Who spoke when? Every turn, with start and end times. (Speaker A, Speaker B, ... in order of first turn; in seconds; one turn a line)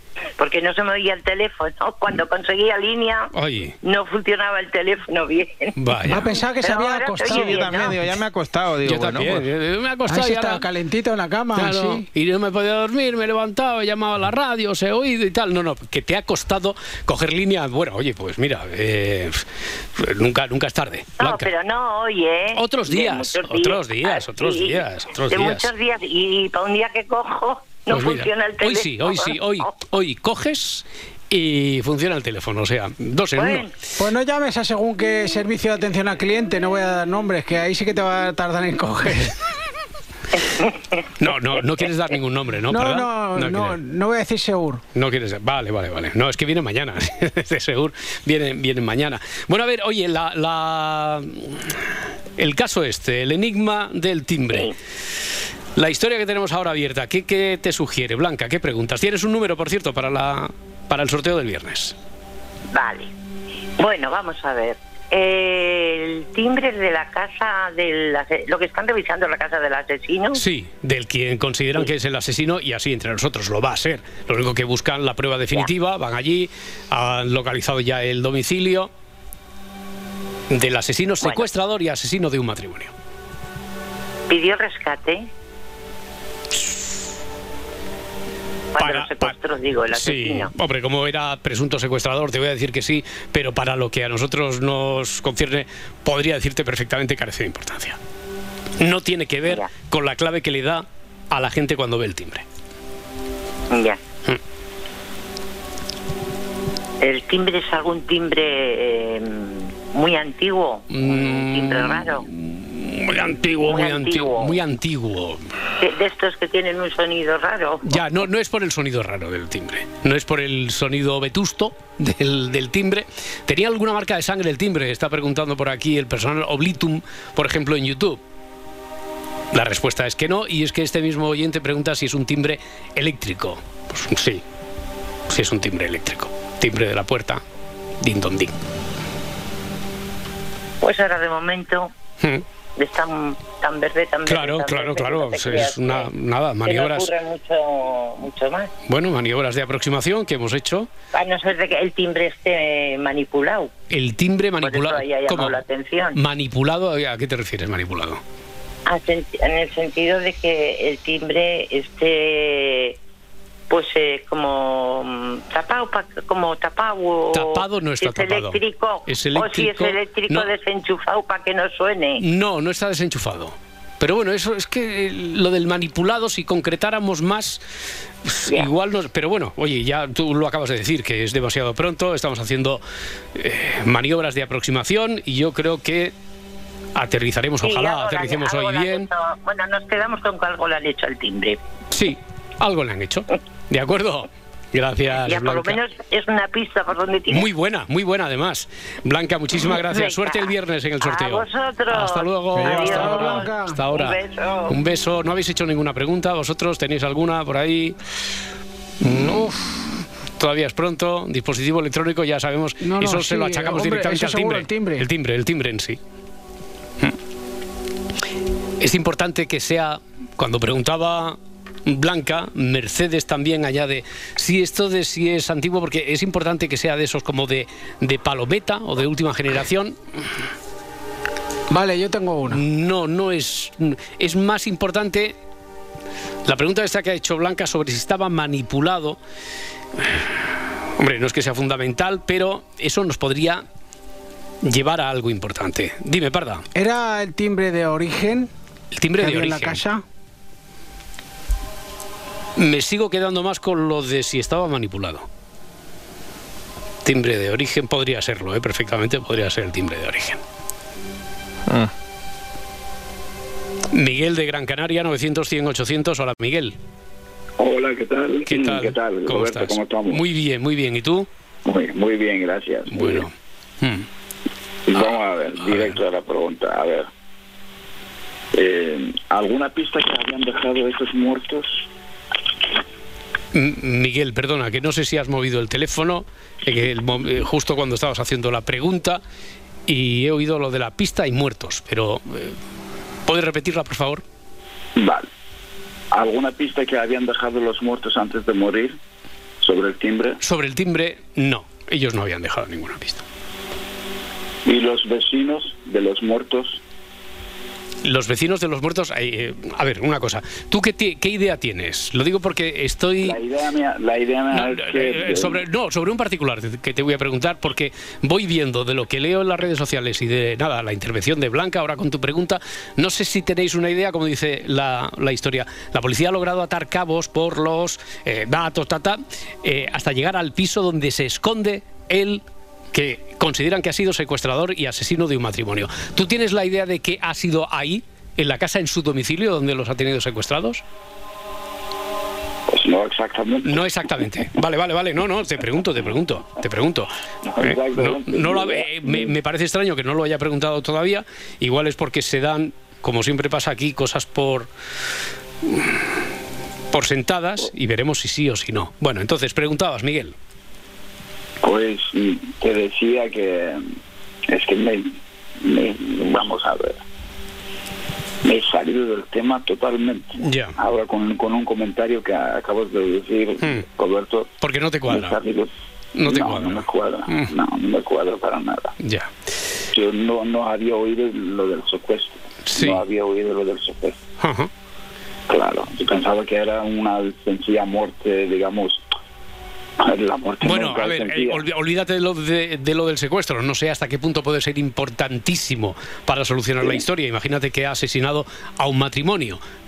Speaker A: 0.4-3.3
Speaker B: 3.3-3.8
Speaker A: 3.8-5.7
Speaker B: 5.8-6.3
Speaker C: 6.0-7.9
Speaker A: 6.5-7.9
Speaker D: 7.2-9.5
Speaker B: 8.8-10.7
Speaker C: 10.1-12.1
Speaker B: 11.5-21.5
Speaker A: 21.2-29.7
Speaker B: 22.5-25.7
Speaker B: 27.9-33.7
Speaker A: 33.3-33.7
Speaker C: 34.0-39.4
Speaker B: 41.2-43.8
Speaker C: 42.7-44.8
Speaker B: 44.9-54.7
Speaker B: 55.8-62.0
Speaker A: 62.7-63.1
Speaker A: 63.8-70.4
Speaker B: 70.3-78.9
Speaker B: 80.5-82.9
Speaker A: 81.2-81.5
Speaker A: 84.3-85.3
Speaker A: 88.7-90.5
Speaker B: 88.8-89.3
Speaker B: 89.9-98.0
Speaker B: 98.8-102.4
Speaker A: 103.7-104.0
Speaker A: 107.0-112.2
Speaker B: 110.9-115.5
Speaker A: 113.7-114.6
Speaker A: 115.8-117.8
Speaker B: 117.8-128.2
Speaker B: 129.5-134.4
Speaker B: 135.3-137.4
Speaker B: 138.0-138.5
Speaker A: 140.8-141.9
Speaker A: 142.8-146.1
Speaker B: 144.2-147.1
Speaker A: 146.6-148.7
Speaker B: 148.9-150.9
Speaker A: 151.1-153.7
Speaker B: 153.9-155.6
Speaker A: 154.6-156.2
Speaker B: 156.1-158.2
Speaker A: 158.9-163.0
Speaker A: 163.7-172.2
Speaker B: 167.3-170.5
Speaker B: 172.2-177.6
Speaker B: 178.2-182.8
Speaker B: 183.3-186.1
Speaker B: 186.9-189.1
Speaker A: 187.6-191.6
Speaker B: 191.9-195.8
Speaker A: 195.2-197.5
Speaker B: 197.3-208.0
Speaker A: 199.6-204.8
Speaker C: 202.6-203.8
Speaker B: 209.0-209.5
Speaker D: 209.0-209.3
Speaker C: 209.2-209.7
Speaker B: 210.4-216.0
Speaker C: 212.8-215.1
Speaker B: 218.8-230.0
Speaker C: 231.7-232.6
Speaker B: 232.5-235.3
Speaker B: 236.4-239.2
Speaker B: 240.0-240.3
Speaker B: 241.0-243.6
Speaker B: 244.6-246.6
Speaker C: 246.7-248.5
Speaker B: 248.9-249.8
Speaker C: 249.2-250.0
Speaker B: 252.6-255.2
Speaker B: 257.0-260.4
Speaker D: 261.7-261.9
Speaker B: 263.9-266.8
Speaker E: 267.6-270.2
Speaker B: 268.4-271.3
Speaker E: 271.6-273.2
Speaker B: 272.9-274.1
Speaker E: 274.9-277.1
Speaker B: 275.6-276.0
Speaker E: 278.5-281.9
Speaker B: 283.5-289.2
Speaker B: 289.9-292.6
Speaker B: 293.3-294.2
Speaker E: 295.0-295.3
Speaker E: 296.1-299.0
Speaker E: 299.6-300.4
Speaker B: 300.4-303.2
Speaker E: 304.6-306.8
Speaker B: 308.0-313.4
Speaker E: 313.2-315.6
Speaker B: 314.5-340.8
Speaker E: 342.7-344.1
Speaker B: 343.6-354.7
Speaker E: 347.4-349.3
Speaker B: 355.6-356.0
Speaker B: 356.9-360.3
Speaker E: 361.6-363.8
Speaker E: 364.5-367.0
Speaker E: 368.4-374.5
Speaker B: 370.4-370.8
Speaker B: 373.6-373.9
Speaker B: 374.6-375.4
Speaker E: 375.1-375.7
Speaker B: 376.1-377.5
Speaker E: 376.2-378.9
Speaker B: 379.0-379.3
Speaker E: 379.9-384.2
Speaker B: 382.6-383.0
Speaker B: 384.4-384.7
Speaker E: 385.5-389.0
Speaker E: 390.0-391.6
Speaker B: 390.6-399.6